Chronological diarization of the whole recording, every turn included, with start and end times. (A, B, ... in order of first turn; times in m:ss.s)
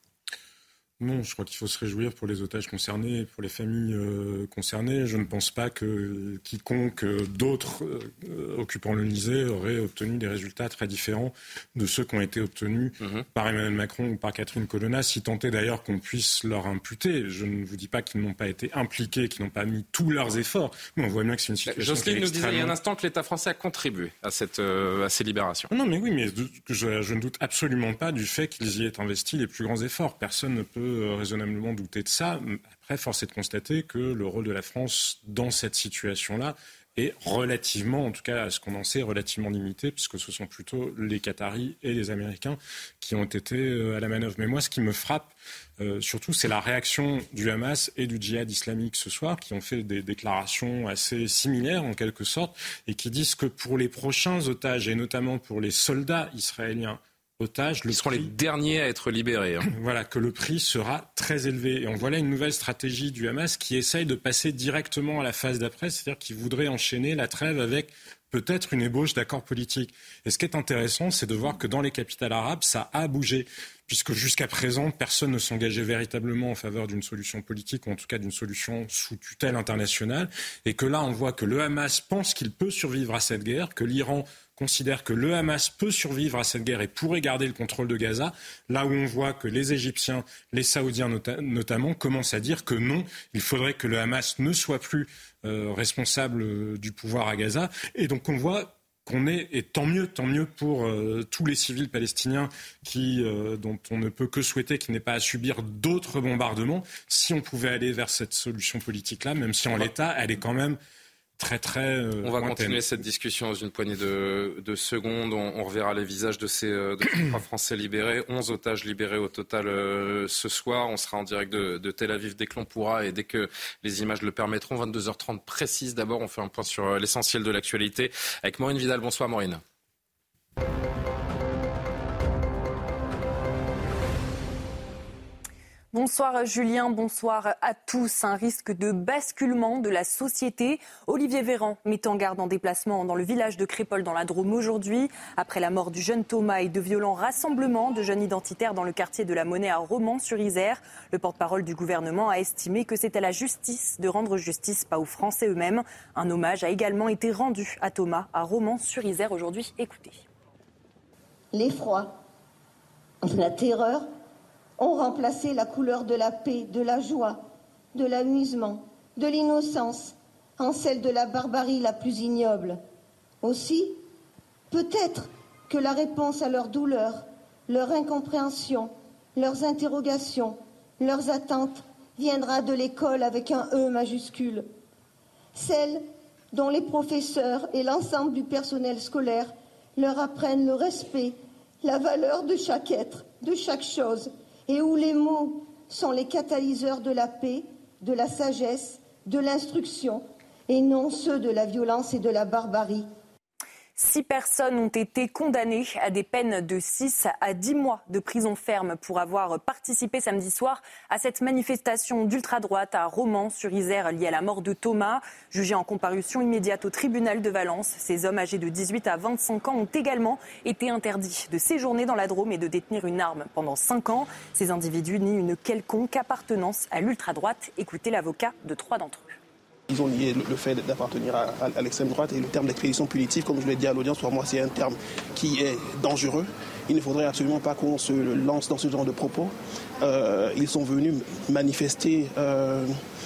0:01.0-0:22.8 A
0:21.7-0:25.7 B
0:25.7-0:58.3 A
0:57.9-0:59.6 B
0:59.6-1:50.8 A
1:51.4-1:52.8 A
1:52.2-2:09.6 B
2:15.9-2:40.2 C
2:41.5-2:42.2 D
2:43.2-2:44.1 D
2:44.8-2:52.8 D
2:53.4-2:54.0 D
2:54.7-3:04.7 D
3:05.5-3:23.1 D
3:24.0-3:49.4 C
3:49.9-4:03.0 E